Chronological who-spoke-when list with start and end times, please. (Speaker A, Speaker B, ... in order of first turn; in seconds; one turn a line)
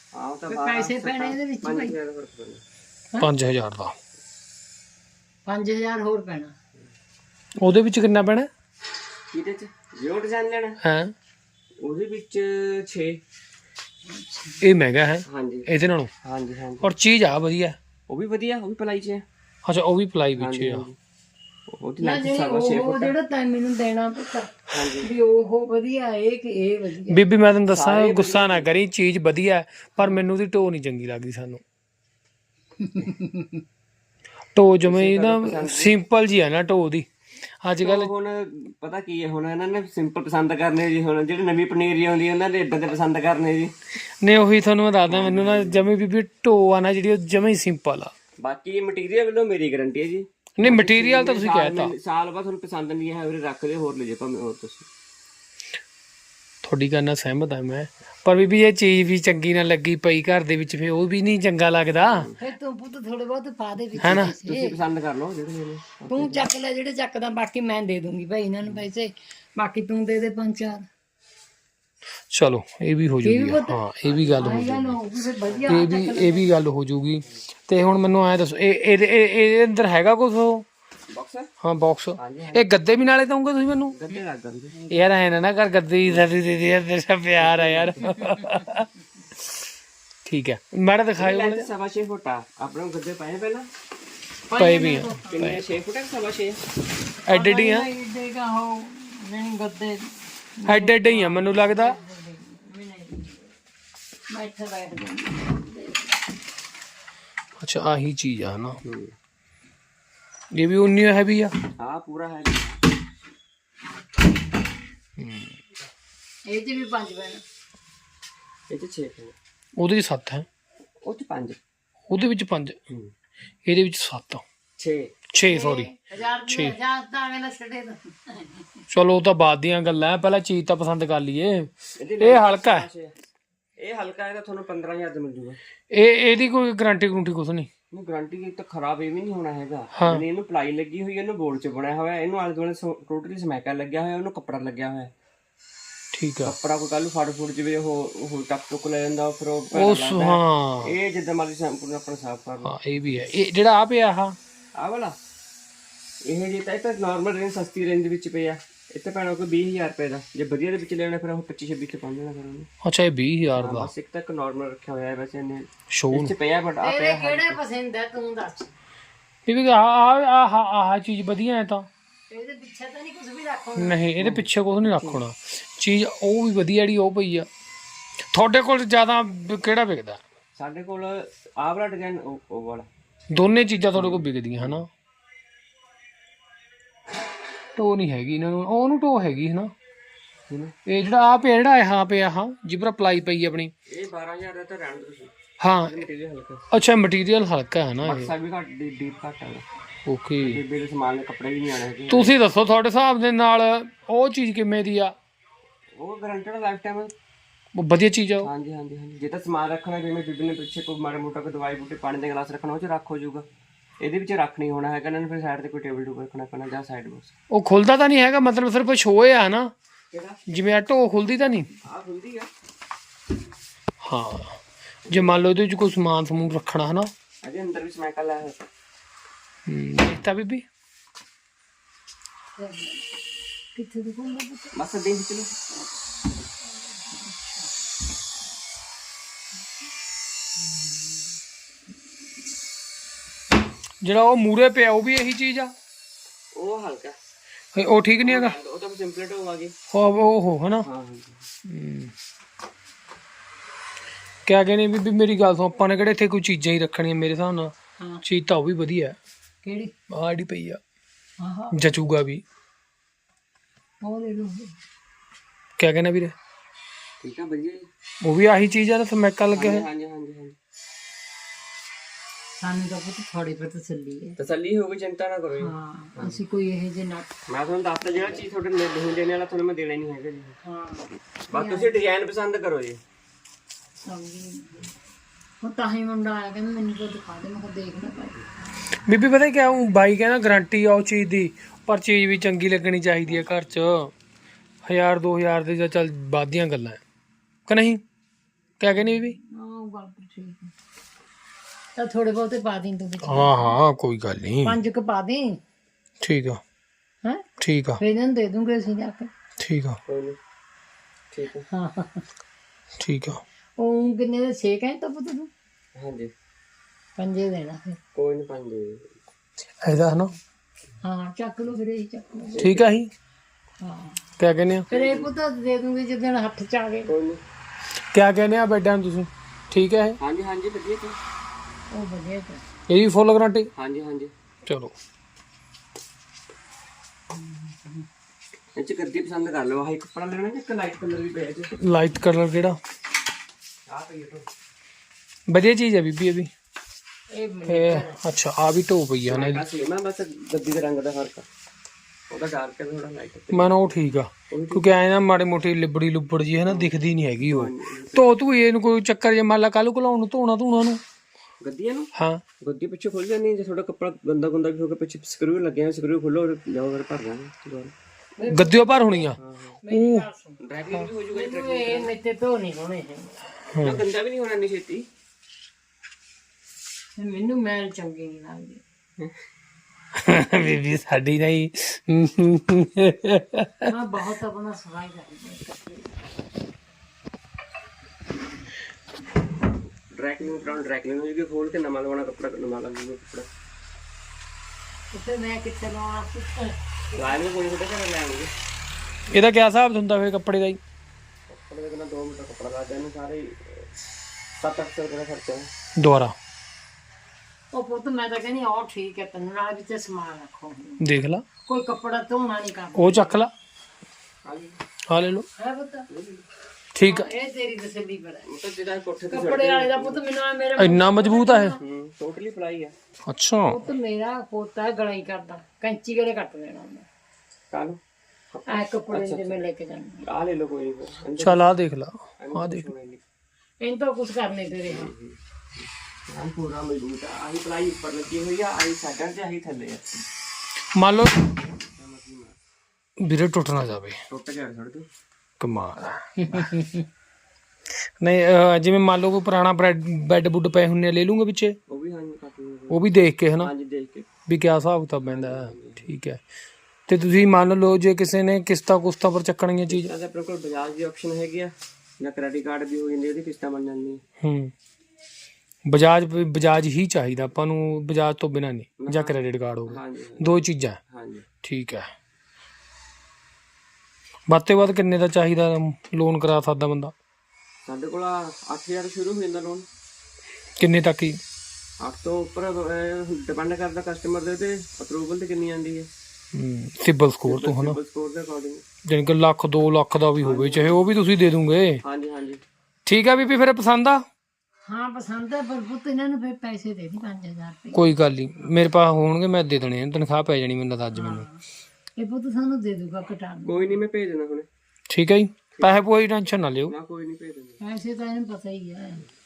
Speaker A: 0.1-2.6
Speaker B: 0.5-1.9
Speaker C: 3.2-4.0
Speaker B: 5.5-6.5
Speaker C: 7.6-8.5
Speaker A: 9.3-10.8
Speaker C: 10.8-11.1
Speaker A: 11.8-13.2
Speaker B: 14.1-14.6
Speaker C: 14.6-16.1
Speaker A: 15.3-15.7
Speaker A: 16.2-16.9
Speaker C: 16.8-17.8
Speaker A: 18.1-19.2
Speaker C: 19.6-20.9
Speaker A: 20.4-20.9
Speaker A: 21.7-23.1
Speaker B: 22.0-27.2
Speaker A: 24.7-25.1
Speaker C: 27.1-31.6
Speaker A: 27.7-28.7
Speaker B: 32.8-33.6
Speaker C: 34.5-37.1
Speaker A: 34.8-35.9
Speaker C: 37.6-38.1
Speaker A: 37.8-43.7
Speaker C: 44.2-48.1
Speaker A: 45.1-45.9
Speaker A: 48.4-54.9
Speaker C: 50.6-51.9
Speaker C: 56.6-62.3
Speaker A: 62.0-62.5
Speaker B: 62.4-64.8
Speaker A: 63.9-66.5
Speaker C: 64.0-64.3
Speaker B: 66.1-70.9
Speaker C: 72.3-74.9
Speaker B: 73.2-76.5
Speaker A: 74.0-75.8
Speaker C: 75.7-80.7
Speaker A: 81.1-81.5
Speaker C: 81.6-84.0
Speaker A: 82.2-82.7
Speaker A: 83.9-84.8
Speaker C: 84.9-88.9
Speaker A: 87.3-88.3
Speaker C: 90.2-91.7
Speaker A: 91.2-93.7
Speaker B: 94.5-95.5
Speaker C: 94.6-95.6
Speaker A: 95.3-96.6
Speaker C: 97.2-97.9
Speaker B: 97.3-103.5
Speaker C: 100.7-102.0
Speaker B: 104.3-106.2
Speaker C: 107.6-108.8
Speaker A: 108.8-109.1
Speaker C: 110.5-111.5
Speaker A: 111.8-112.8
Speaker C: 115.2-115.6
Speaker B: 116.5-117.4
Speaker A: 118.7-119.3
Speaker C: 119.8-120.5
Speaker A: 121.0-121.6
Speaker C: 122.1-122.8
Speaker C: 123.6-124.4
Speaker A: 124.8-125.2
Speaker C: 125.3-125.9
Speaker B: 125.4-128.8
Speaker C: 126.5-126.7
Speaker C: 128.9-132.9
Speaker A: 132.0-133.1
Speaker A: 133.8-135.6
Speaker C: 135.9-137.7
Speaker A: 137.9-145.1
Speaker C: 139.9-140.2
Speaker C: 146.1-146.5
Speaker A: 146.4-152.7
Speaker C: 149.7-150.9
Speaker C: 152.6-154.4
Speaker A: 154.8-155.2
Speaker A: 156.2-162.7
Speaker C: 162.8-163.9
Speaker A: 163.6-167.6
Speaker C: 165.9-166.3
Speaker B: 166.8-168.7
Speaker C: 169.5-171.9
Speaker B: 172.3-174.0
Speaker C: 173.8-177.5
Speaker A: 174.2-175.2
Speaker C: 178.3-180.2
Speaker A: 180.6-182.9
Speaker C: 183.3-184.9
Speaker A: 183.9-184.8
Speaker C: 187.8-189.7
Speaker A: 190.5-190.8
Speaker C: 190.8-193.7
Speaker A: 193.9-196.7
Speaker C: 195.6-196.0
Speaker C: 196.7-198.3
Speaker A: 198.0-199.6
Speaker C: 200.1-200.6
Speaker A: 200.4-202.3
Speaker C: 202.1-205.1
Speaker A: 205.9-207.1
Speaker C: 207.7-208.5
Speaker A: 208.4-213.4
Speaker A: 214.0-217.3
Speaker C: 217.5-219.7
Speaker A: 220.1-220.4
Speaker C: 220.5-221.7
Speaker A: 221.8-222.5
Speaker C: 224.0-227.1
Speaker A: 227.4-228.6
Speaker C: 229.7-230.6
Speaker B: 232.6-233.1
Speaker B: 233.7-234.7
Speaker A: 234.7-235.5
Speaker B: 236.7-237.7
Speaker B: 240.6-241.2
Speaker C: 244.0-245.7
Speaker A: 246.5-247.2
Speaker C: 247.7-248.5
Speaker A: 248.2-249.7
Speaker C: 249.9-250.9
Speaker A: 250.8-251.4
Speaker C: 251.7-252.1
Speaker C: 254.4-257.7
Speaker C: 258.2-259.2
Speaker B: 259.6-259.9
Speaker C: 260.1-260.8
Speaker B: 261.4-261.8
Speaker C: 261.7-262.4
Speaker B: 264.0-264.8
Speaker C: 265.8-266.3
Speaker A: 267.2-267.9
Speaker C: 268.2-269.8
Speaker A: 269.5-270.6
Speaker B: 272.6-274.4
Speaker A: 274.4-276.4
Speaker B: 275.6-277.3
Speaker A: 277.5-280.6
Speaker B: 280.6-281.9
Speaker A: 281.5-283.0
Speaker B: 284.0-284.7
Speaker B: 285.6-288.4
Speaker C: 289.1-294.1
Speaker A: 293.2-293.6
Speaker C: 294.9-297.0
Speaker C: 297.7-298.0
Speaker C: 298.8-299.4
Speaker B: 299.0-300.7
Speaker B: 301.9-303.7
Speaker C: 303.2-304.8
Speaker B: 304.6-305.6
Speaker C: 306.2-306.6
Speaker C: 307.6-308.0
Speaker B: 308.0-309.3
Speaker C: 309.6-310.0
Speaker A: 310.1-310.4
Speaker A: 311.3-311.7
Speaker B: 311.7-312.2
Speaker C: 313.0-313.4
Speaker B: 313.8-315.5
Speaker A: 315.9-316.3
Speaker B: 317.1-318.0
Speaker A: 318.1-319.1
Speaker C: 319.8-320.3
Speaker B: 321.0-322.7
Speaker A: 322.5-323.0
Speaker C: 322.6-323.1
Speaker B: 323.8-324.2
Speaker C: 324.4-324.9
Speaker A: 324.9-325.3
Speaker B: 324.9-327.1
Speaker A: 327.1-327.4
Speaker C: 328.1-330.2
Speaker A: 330.2-331.2
Speaker B: 331.9-332.6
Speaker C: 332.9-333.7
Speaker A: 333.8-334.3
Speaker C: 334.6-334.9
Speaker B: 337.3-338.1
Speaker A: 338.8-341.7
Speaker C: 341.8-342.8
Speaker A: 343.9-344.5
Speaker C: 345.5-346.5
Speaker B: 347.3-348.2
Speaker C: 347.6-349.6
Speaker A: 349.3-351.5
Speaker A: 352.3-353.9
Speaker C: 353.5-361.0
Speaker A: 354.5-354.9
Speaker A: 356.6-358.3
Speaker A: 361.6-362.1
Speaker C: 362.1-362.4
Speaker A: 362.6-367.9
Speaker B: 368.4-373.4
Speaker C: 368.5-370.3
Speaker A: 369.4-369.8
Speaker A: 370.6-372.1
Speaker C: 373.7-374.0
Speaker A: 373.8-375.1
Speaker B: 377.1-378.8
Speaker C: 380.1-383.9
Speaker B: 383.9-386.0
Speaker A: 390.1-393.5
Speaker B: 395.1-397.2
Speaker A: 397.1-398.5
Speaker C: 399.3-400.8
Speaker A: 401.5-403.9
Speaker A: 404.6-405.7
Speaker C: 405.9-406.3
Speaker B: 407.7-411.0
Speaker C: 411.0-411.4
Speaker B: 411.6-413.4
Speaker C: 412.9-413.5
Speaker A: 414.4-414.8
Speaker C: 415.1-415.5
Speaker B: 415.6-416.1
Speaker A: 416.1-416.4
Speaker C: 416.9-417.3
Speaker B: 417.0-418.4
Speaker A: 418.4-420.2
Speaker B: 419.3-421.8
Speaker C: 420.8-421.8
Speaker A: 421.8-422.9
Speaker C: 423.3-423.9
Speaker B: 423.7-427.1
Speaker A: 427.7-428.0
Speaker A: 428.5-429.6
Speaker B: 428.7-430.2
Speaker A: 430.2-431.7
Speaker C: 431.4-432.9
Speaker A: 432.4-433.2
Speaker B: 433.8-435.1
Speaker A: 434.9-440.0
Speaker C: 440.9-441.4
Speaker A: 441.8-442.6
Speaker C: 443.2-444.2
Speaker A: 444.3-445.1
Speaker C: 445.6-446.8
Speaker B: 446.5-446.9
Speaker C: 448.2-451.8
Speaker A: 451.9-454.3
Speaker C: 452.9-453.7
Speaker C: 454.5-456.4
Speaker A: 455.2-456.1
Speaker C: 457.1-460.1
Speaker A: 459.9-464.2
Speaker C: 464.4-464.7
Speaker C: 465.9-471.0
Speaker A: 469.0-469.4
Speaker A: 469.9-470.6
Speaker A: 471.1-471.5
Speaker C: 471.6-472.1
Speaker C: 474.5-477.1
Speaker A: 477.9-479.9
Speaker C: 480.8-481.4
Speaker A: 482.0-486.1
Speaker C: 486.5-488.0
Speaker A: 487.4-488.8
Speaker C: 489.0-492.0
Speaker A: 490.4-491.0
Speaker A: 492.0-492.6
Speaker C: 493.1-494.2
Speaker B: 494.8-498.0
Speaker C: 497.9-501.5
Speaker B: 501.1-501.6
Speaker B: 502.1-504.0
Speaker A: 503.6-504.7
Speaker C: 505.1-506.9
Speaker A: 506.9-507.8
Speaker B: 507.8-509.2